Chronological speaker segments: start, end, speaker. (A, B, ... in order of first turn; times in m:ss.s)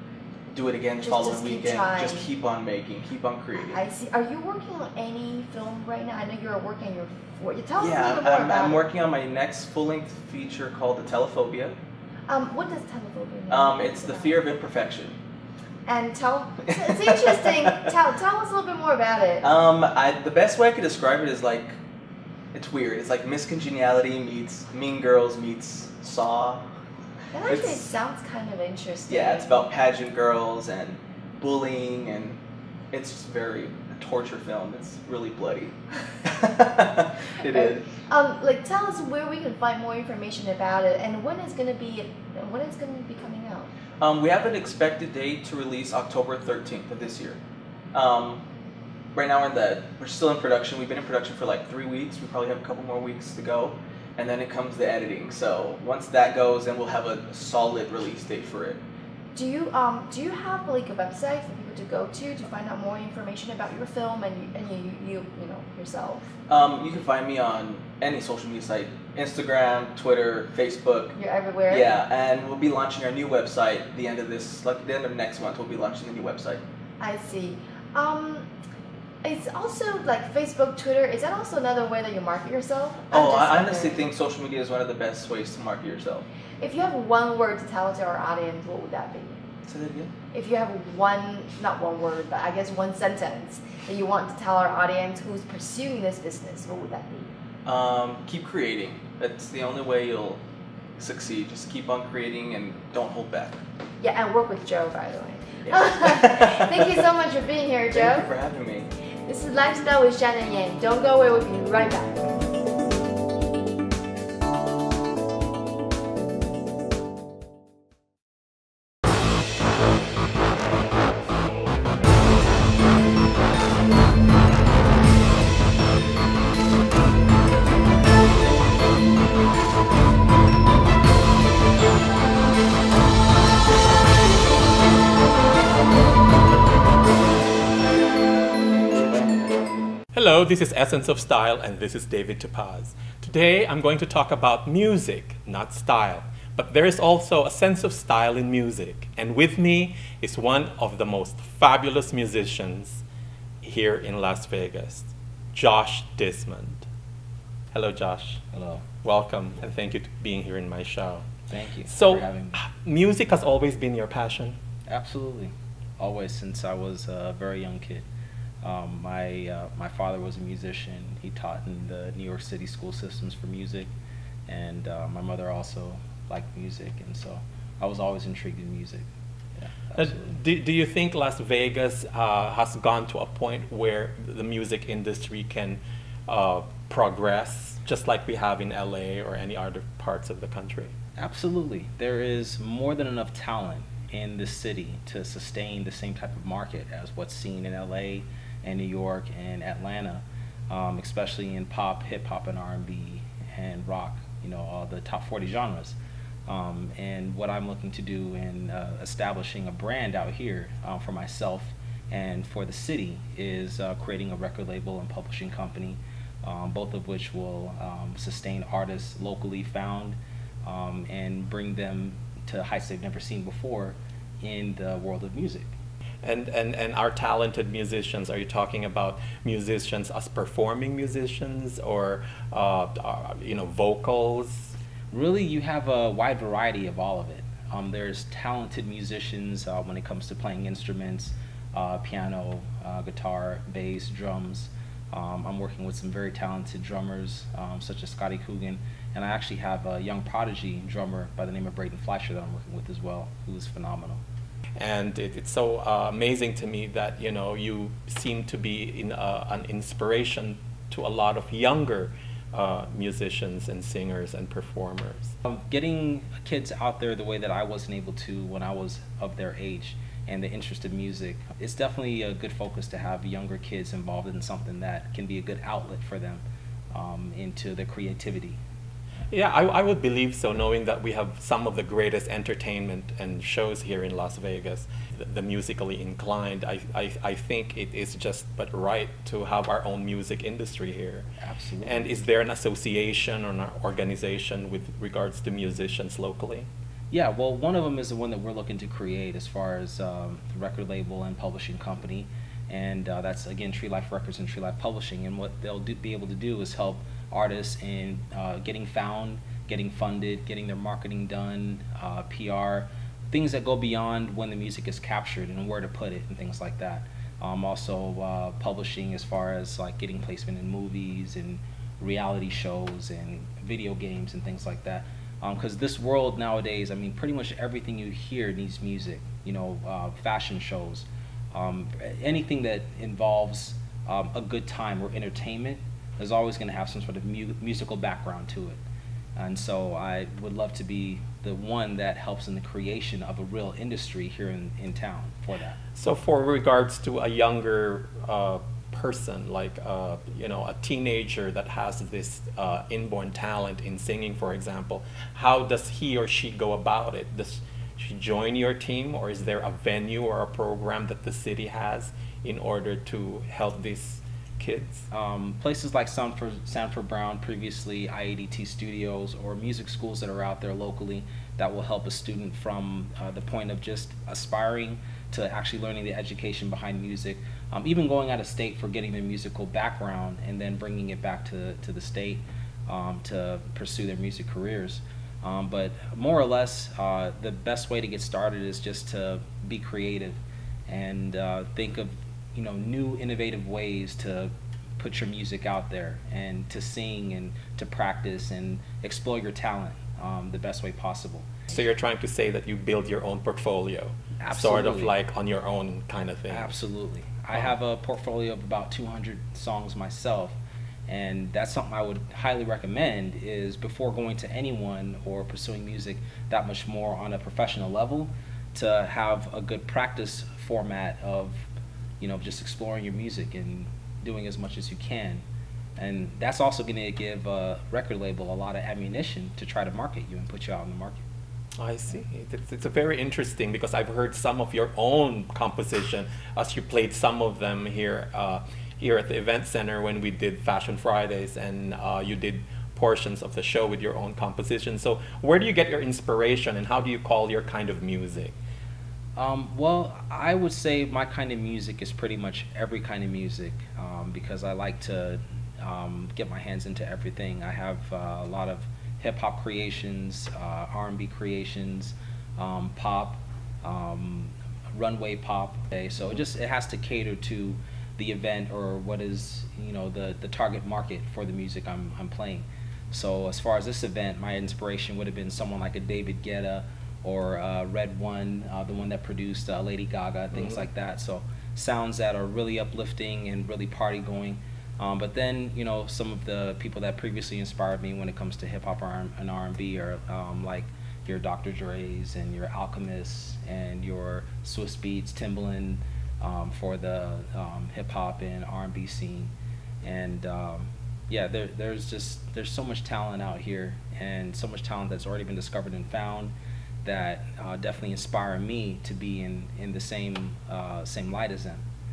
0:00.5-0:03.8 A
0:01.0-0:02.3 B
0:03.5-0:08.8 B
0:07.8-0:11.8 A
0:12.3-0:14.5 B
0:13.5-0:15.2 A
0:15.8-0:19.5 B
0:16.6-0:17.9 A
0:19.4-0:21.8 A
0:22.5-0:26.6 A
0:27.3-0:29.5 B
0:27.4-0:27.9 A
0:29.1-0:32.4 A
0:32.9-0:37.9 A
0:37.4-0:43.7 B
0:44.0-0:47.4 A
0:47.9-0:48.4 A
0:49.1-0:58.8 A
0:59.3-1:06.3 B
1:06.5-1:11.1 A
1:11.1-1:11.9 B
1:11.7-1:16.6 A
1:17.0-1:18.5 B
1:19.2-1:24.1 B
1:23.1-1:26.3 A
1:26.6-1:29.4 B
1:29.6-1:30.1 A
1:30.3-1:37.3 B
1:37.6-1:40.4 A
1:41.0-1:43.6 A
1:44.0-1:48.3 B
1:45.6-1:47.0 A
1:47.9-1:48.9 A
1:49.2-1:52.4 B
2:20.1-2:33.0 C
2:33.6-2:36.9 C
2:37.7-2:38.4 C
2:38.5-2:38.8 D
2:39.0-2:41.2 C
2:41.5-2:42.6 D
2:41.9-2:44.6 C
2:44.9-2:48.1 D
2:48.6-2:53.9 D
2:54.5-2:59.1 D
2:59.6-3:00.3 D
2:59.9-3:10.9 C
3:11.2-3:45.7 D
3:46.2-3:54.8 C
3:55.1-4:14.2 D
4:14.8-4:25.3 C
4:25.4-4:38.6 D
4:39.3-4:51.3 C
4:51.4-4:52.1 D
4:51.8-4:56.7 C
4:57.1-5:38.8 D
5:39.4-5:45.8 D
5:46.0-6:05.1 C
6:05.1-6:41.8 D
6:41.7-6:46.8 C
6:44.4-6:45.1 D
6:46.5-7:05.4 D
7:06.0-7:11.2 D
7:11.8-7:28.6 C
7:29.4-8:31.8 D